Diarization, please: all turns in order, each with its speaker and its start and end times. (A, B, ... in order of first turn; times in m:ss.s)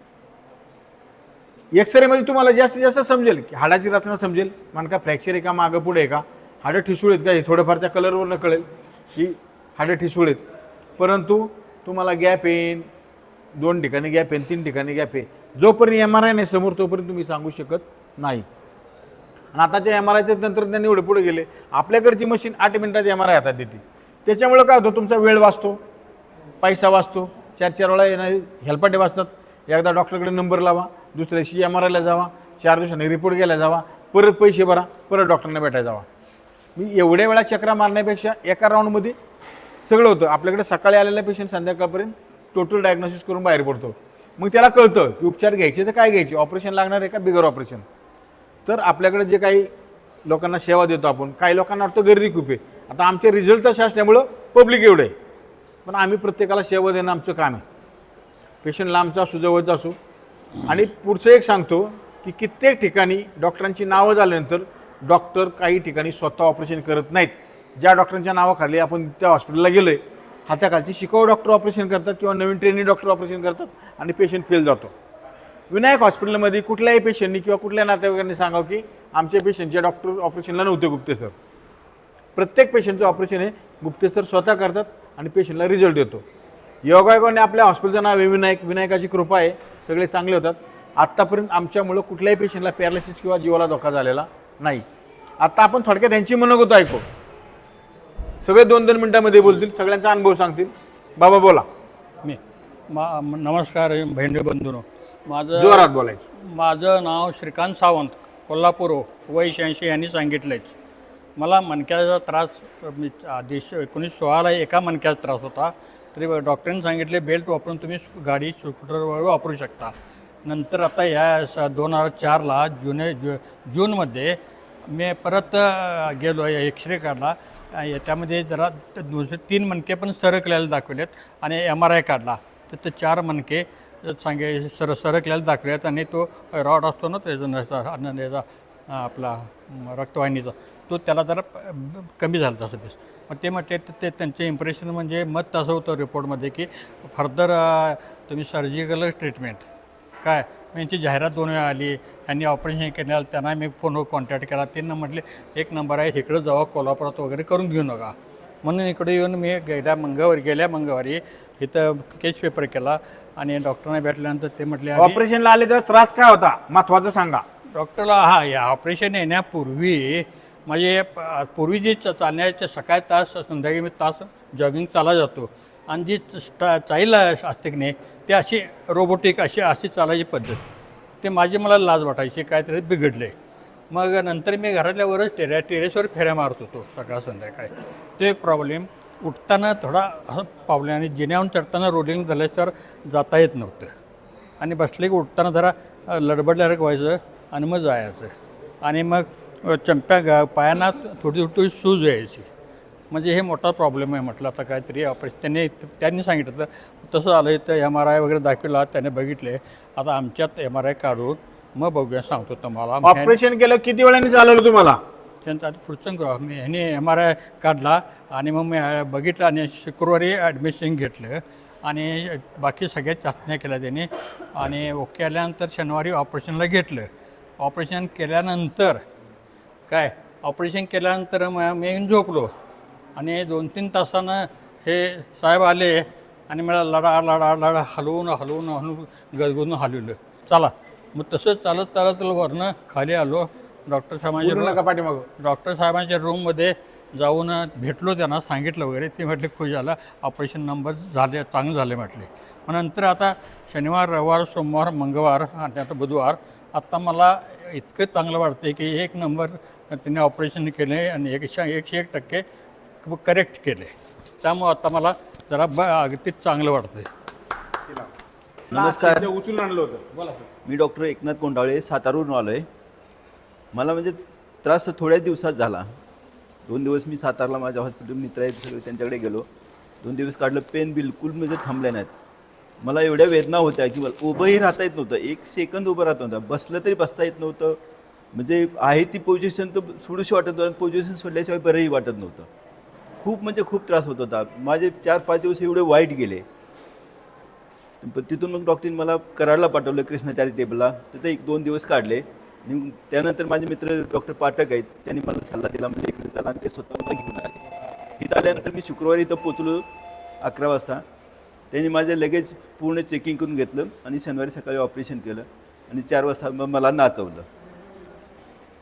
0:01.7-0:10.4 A
0:11.0-0:12.9 A
0:13.5-0:18.4 A
0:19.5-0:25.8 A
0:26.6-0:36.1 A
0:36.8-0:39.2 A
0:39.8-0:47.8 A
0:48.6-0:49.7 A
0:50.2-0:55.1 A
0:55.8-0:57.6 A
0:58.6-1:00.0 A
1:00.6-1:14.9 A
1:15.7-1:21.3 A
1:22.4-1:26.2 A
1:26.8-1:34.8 A
1:35.4-1:37.0 A
1:38.4-1:41.7 A
1:42.2-1:45.8 B
1:45.5-1:46.2 A
1:46.4-1:50.7 B
1:51.4-1:59.9 B
2:00.4-2:04.4 B
2:04.9-2:29.6 B
2:30.2-2:45.2 B
2:44.9-2:47.4 A
2:47.8-3:00.6 B
3:01.2-3:03.3 B
3:03.9-3:13.9 B
3:14.6-3:22.5 B
3:23.1-3:33.3 B
3:33.0-3:35.0 A
3:35.4-3:47.1 B
3:47.6-3:49.0 B
3:49.9-3:52.5 B
3:53.2-4:04.8 B
4:04.4-4:05.3 A
4:05.4-4:22.4 B
4:23.0-4:27.1 B
4:28.7-4:29.3 C
4:28.7-4:30.5 A
4:30.6-4:32.6 C
4:33.7-4:35.9 C
4:36.6-4:39.5 C
4:40.0-4:42.1 C
4:42.8-4:47.8 C
4:48.3-4:52.5 C
4:53.2-4:56.4 C
4:58.0-5:07.6 C
5:08.2-5:09.8 C
5:10.4-5:11.0 C
5:11.7-5:17.4 C